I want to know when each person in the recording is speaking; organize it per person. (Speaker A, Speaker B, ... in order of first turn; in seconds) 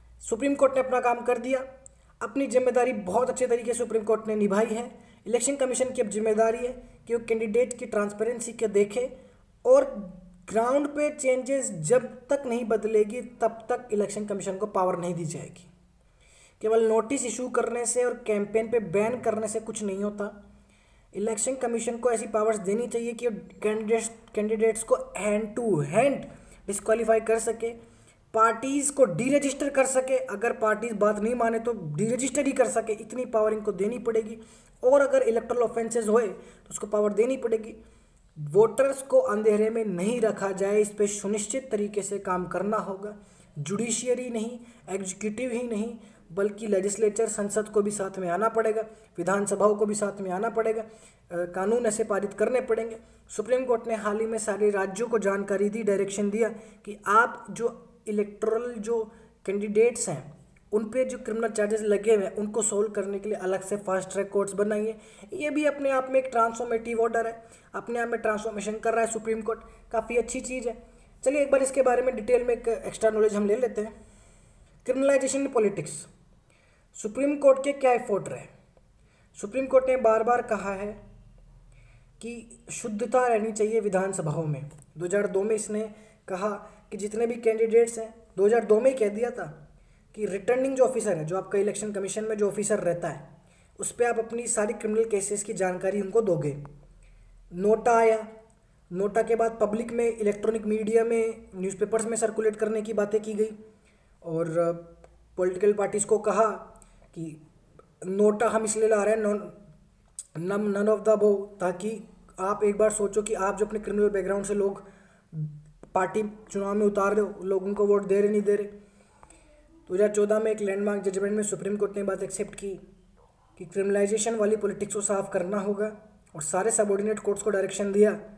Speaker A: 0.2-1.7, 2.2-9.1, 9.6-15.7, 16.6-20.3, 21.1-27.8, 28.3-37.8, 38.4-73.9, 74.8-76.1, 76.9-78.5, 79.3-81.0, 82.2-89.6, 90.1-96.7, 97.5-98.3, 98.9-103.6, 104.2-107.4, 108.0-109.5, 110.3-118.7, 119.9-122.8, 123.6-128.2